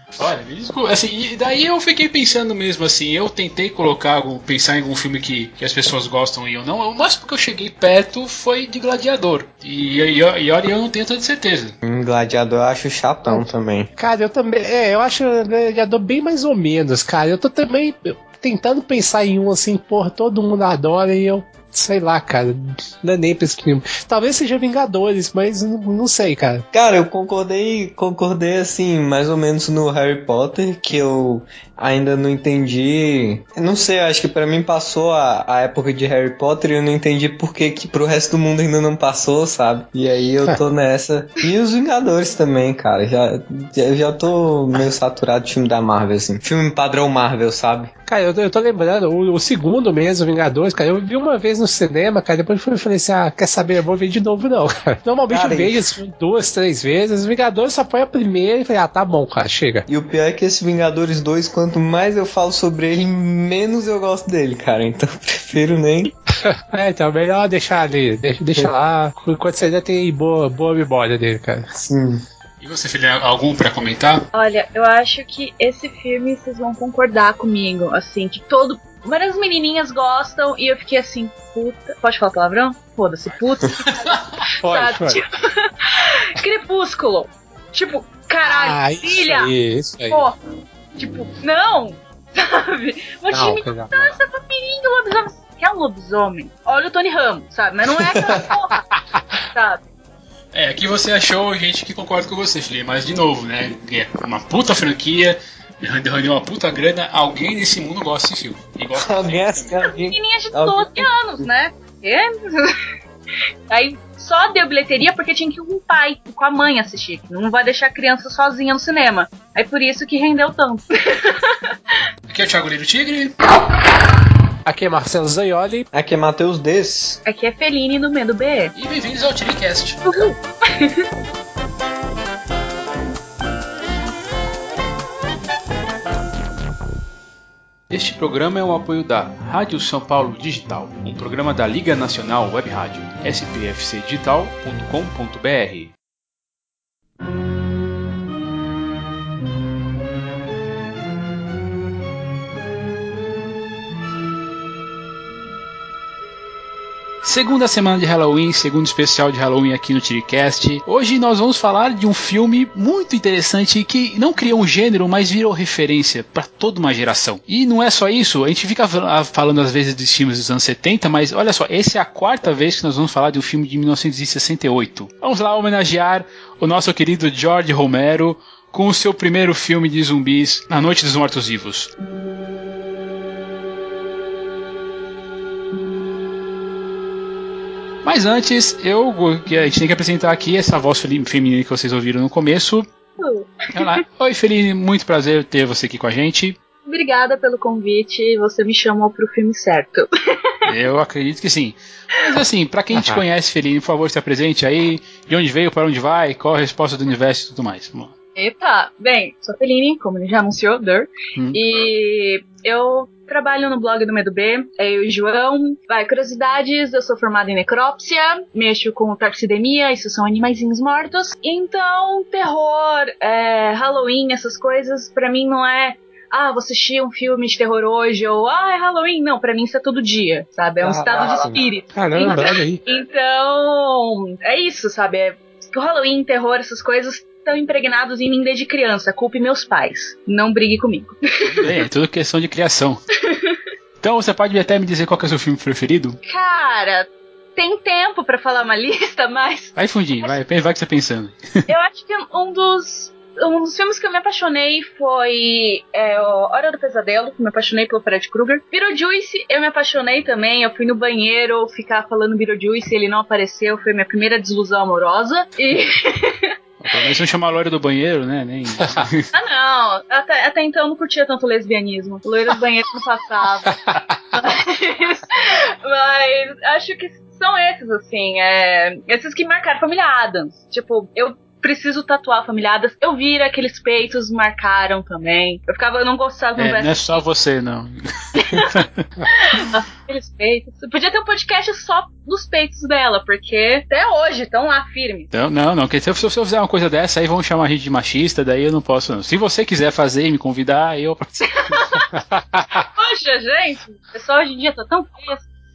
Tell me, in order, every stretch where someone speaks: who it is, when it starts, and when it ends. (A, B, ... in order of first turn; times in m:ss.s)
0:00.2-0:11.7 A
0:11.8-0:13.9 B
0:14.0-0:26.6 C
0:26.7-0:47.9 B
0:48.1-0:59.8 C
0:55.3-0:55.8 B
0:59.9-1:06.1 B
1:06.4-1:11.7 C
1:11.8-1:12.2 B
1:12.6-1:14.3 A
1:14.3-1:29.5 D
1:23.3-1:24.3 A
1:24.6-1:25.2 C
1:28.4-1:30.2 C
1:30.1-1:30.4 D
1:30.9-1:38.8 D
1:33.3-1:34.1 C
1:39.5-1:39.8 D
1:40.5-1:49.9 A
1:49.0-1:51.4 B
1:49.8-1:52.8 D
1:53.7-2:01.7 D
2:02.3-2:03.4 A
2:04.6-2:05.9 C
2:05.9-2:07.2 B
2:07.2-2:08.7 D
2:08.7-2:10.0 A
2:10.1-2:11.0 D
2:17.9-2:25.9 A
2:37.2-3:01.9 A
3:08.0-3:12.9 A
3:13.2-3:14.0 D
3:13.7-3:16.6 A
3:16.9-3:20.5 D
3:20.6-3:28.1 A
3:22.9-3:23.2 C
3:28.4-4:01.7 D
3:50.8-3:51.6 B
3:51.9-3:52.8 C
4:01.6-4:03.0 A
4:03.3-4:03.6 D
4:04.0-4:06.2 A
4:06.2-4:10.4 D
4:09.8-4:11.6 A
4:11.6-4:26.5 D
4:26.8-4:29.3 A
4:29.3-4:47.2 D
4:46.6-4:49.0 A
4:48.4-4:48.7 D
4:49.3-4:55.3 D
4:55.3-5:01.9 A
5:01.4-5:02.2 D
5:03.0-5:05.4 D